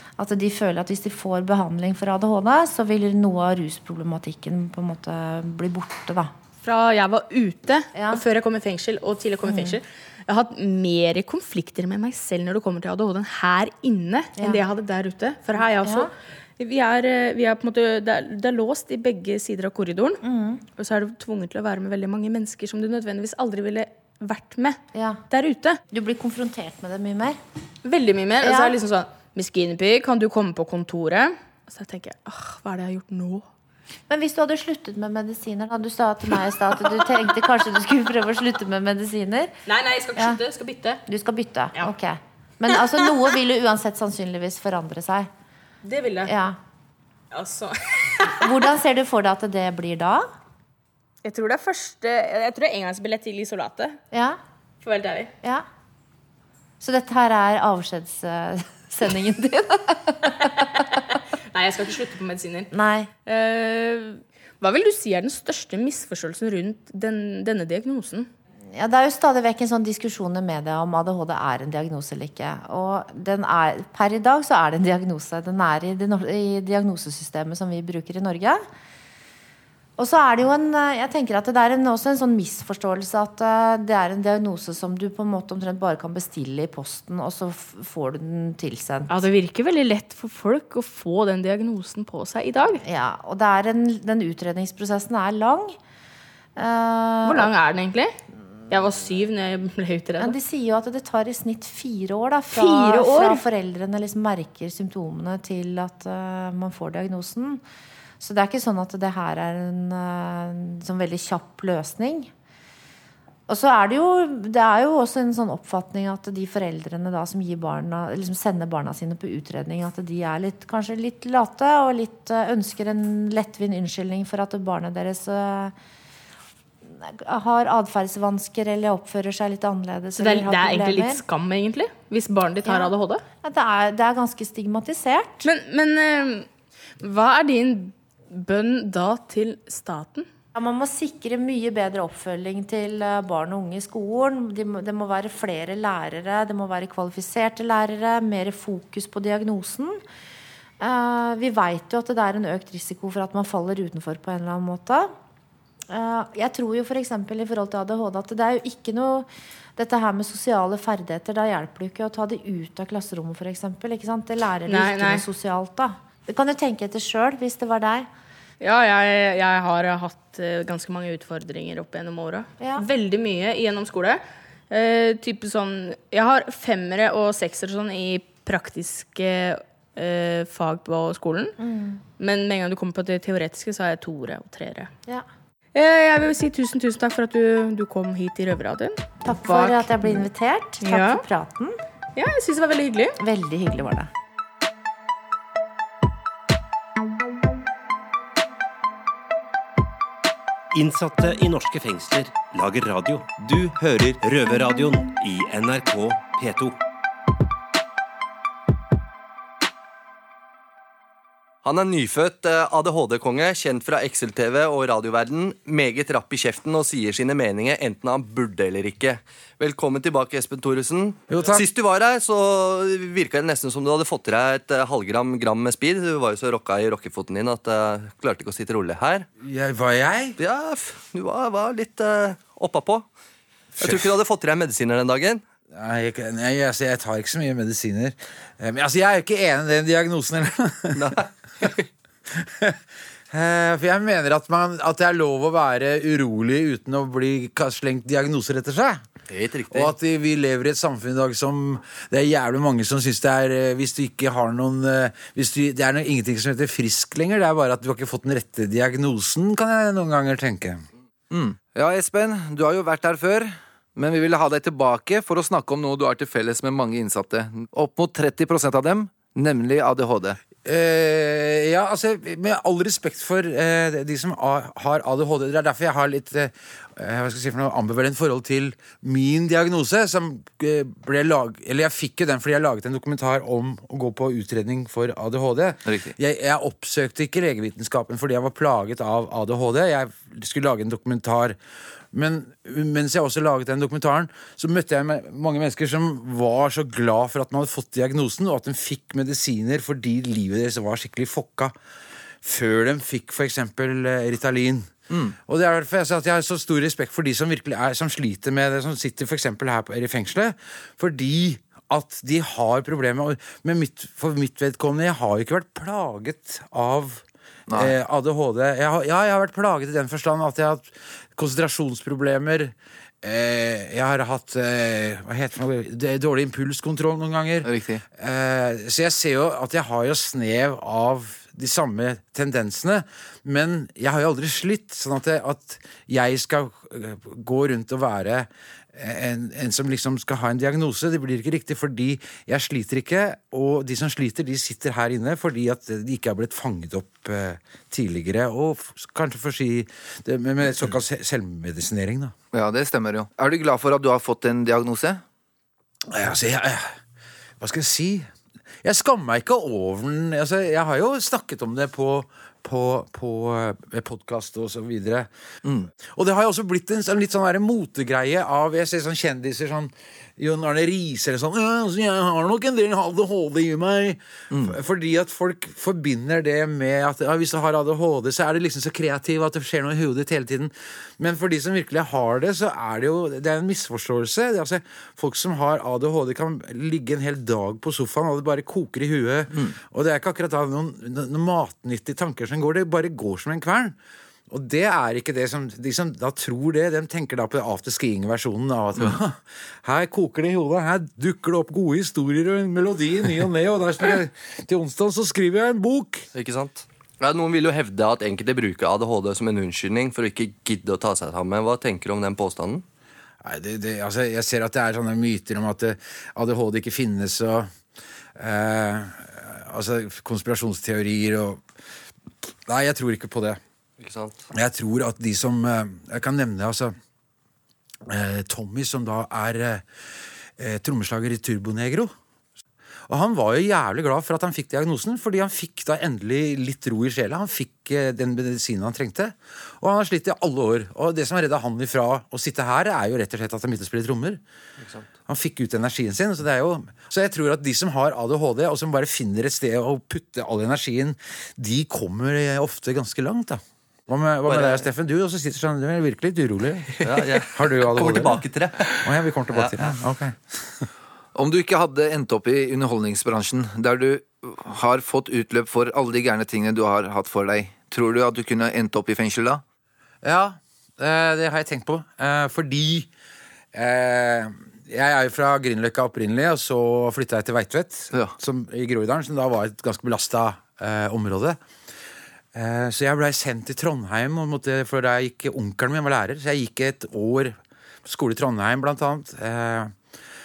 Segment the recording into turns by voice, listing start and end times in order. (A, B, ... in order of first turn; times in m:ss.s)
0:00.2-0:06.3 A
0:06.6-0:20.2 B
0:07.9-0:08.2 A
0:09.4-0:09.8 A
0:15.6-0:16.1 A
0:20.2-0:20.6 A
0:20.8-0:25.8 B
0:24.9-0:25.2 A
0:25.9-0:27.4 A
0:27.8-0:33.4 B
0:28.4-0:28.8 A
0:34.1-0:39.5 A
0:39.6-0:41.0 B
0:41.1-0:45.3 A
0:45.8-0:46.3 B
0:46.2-0:46.6 A
0:47.3-0:48.5 B
0:48.4-0:50.3 A
0:51.2-0:54.0 B
0:54.1-0:54.4 A
0:54.8-0:55.3 B
0:56.8-1:01.0 A
1:01.5-1:02.7 B
1:02.7-1:03.1 A
1:03.2-1:08.3 B
1:08.7-1:18.6 A
1:20.0-1:29.2 A
1:29.1-1:32.8 B
1:32.8-1:35.8 A
1:36.6-1:37.5 A
1:37.2-1:38.1 B
1:38.7-1:40.4 B
1:40.2-1:47.6 A
1:42.5-1:43.4 B
1:48.2-1:52.3 A
1:53.5-2:05.7 A
2:06.9-2:11.2 A
2:10.2-2:13.2 B
2:12.6-2:12.9 A
2:13.4-2:15.5 A
2:15.4-2:16.5 B
2:17.0-2:20.3 B
2:20.5-2:30.0 A
2:30.8-2:35.1 A
2:35.9-2:48.1 A
2:44.7-2:45.2 B
2:48.6-3:01.6 B
2:52.6-2:52.8 A
3:01.6-3:02.0 A
3:02.2-3:04.9 B
3:05.7-3:10.3 B
3:09.2-3:11.8 A
3:10.8-3:11.2 B
3:12.2-3:13.2 B
3:13.2-3:14.1 A
3:20.7-3:26.8 C
3:23.8-3:24.1 D
3:31.6-3:49.3 D
3:41.3-3:41.6 E
3:49.4-3:50.4 E
3:50.4-3:53.0 D
3:53.8-3:55.4 D
3:53.8-3:54.1 E
3:55.7-4:01.1 E
4:00.9-4:01.8 D
4:02.3-4:02.8 E
4:03.3-4:09.0 E
4:09.3-4:09.9 D
4:09.7-4:20.8 E
4:21.3-4:30.4 F
4:30.6-4:51.6 E
4:45.8-4:46.1 F
4:52.1-5:01.7 E
5:02.4-5:52.3 E
5:05.1-5:05.3 F
5:17.7-5:17.9 F
5:27.6-5:28.0 F
5:52.5-5:55.2 F
5:56.1-5:56.9 E
5:57.6-5:58.3 E
5:58.8-6:05.3 E
6:06.0-6:34.0 E
6:34.5-6:46.3 E
6:46.3-6:52.8 D
6:53.4-6:57.7 E
6:58.4-7:01.6 E
7:02.7-7:03.6 E
7:04.0-7:04.4 D
7:04.5-7:06.9 E
7:08.1-7:09.8 E
7:10.6-7:12.1 E
7:13.1-7:24.4 E
7:24.8-7:25.1 D
7:25.3-7:40.8 E
7:34.4-7:34.9 D
7:37.0-7:39.9 D
7:41.3-7:49.6 F
7:50.2-7:53.1 E
7:53.7-8:01.6 E
8:02.5-8:09.9 E